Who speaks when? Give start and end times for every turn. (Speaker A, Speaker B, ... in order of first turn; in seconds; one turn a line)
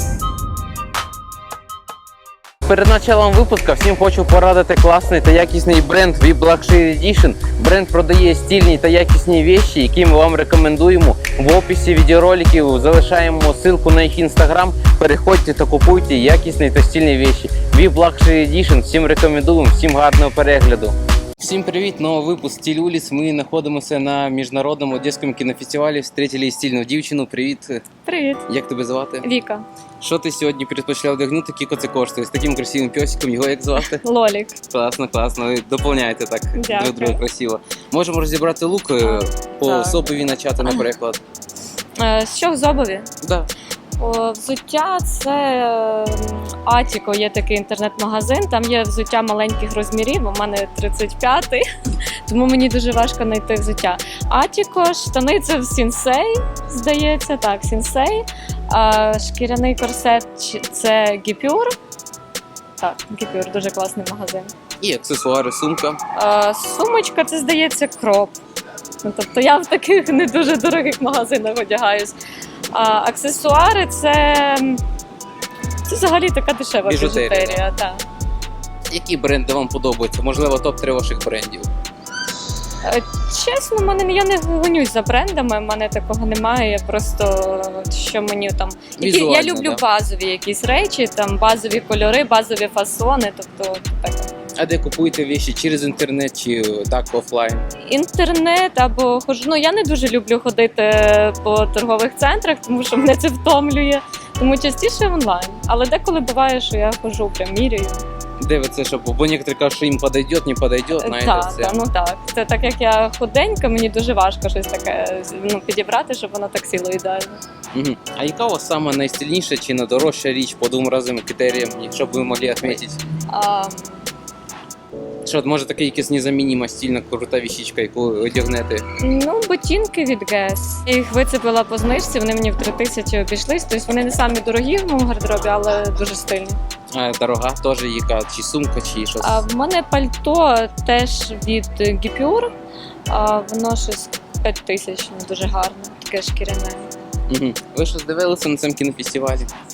Speaker A: 2.7-27.8
Speaker B: 28.0-28.4
Speaker A: 28.5-29.2
Speaker B: 29.2-29.6
Speaker A: 30.0-34.0
Speaker B: 33.9-34.6
Speaker A: 34.7-41.2
Speaker B: 36.5-37.2
Speaker B: 39.0-40.8
Speaker B: 42.0-43.1
Speaker A: 43.2-43.5
Speaker B: 44.0-51.6
Speaker B: 52.2-61.8
Speaker B: 62.8-64.5
Speaker A: 64.8-66.0
Speaker B: 66.1-68.4
Speaker B: 69.0-72.1
Speaker B: 72.7-74.8
Speaker B: 75.8-78.0
Speaker A: 76.8-77.6
Speaker A: 78.9-81.7
Speaker B: 82.8-94.3
Speaker A: 89.0-89.8
Speaker A: 94.5-97.7
Speaker B: 97.8-108.0
Speaker A: 108.4-111.8
Speaker B: 111.0-117.4
Speaker A: 117.7-123.0
Speaker B: 122.6-124.0
Speaker A: 125.2-128.8
Speaker B: 129.0-136.6
Speaker A: 136.9-139.4
Speaker B: 139.2-142.5
Speaker B: 143.1-146.9
Speaker A: 147.3-149.5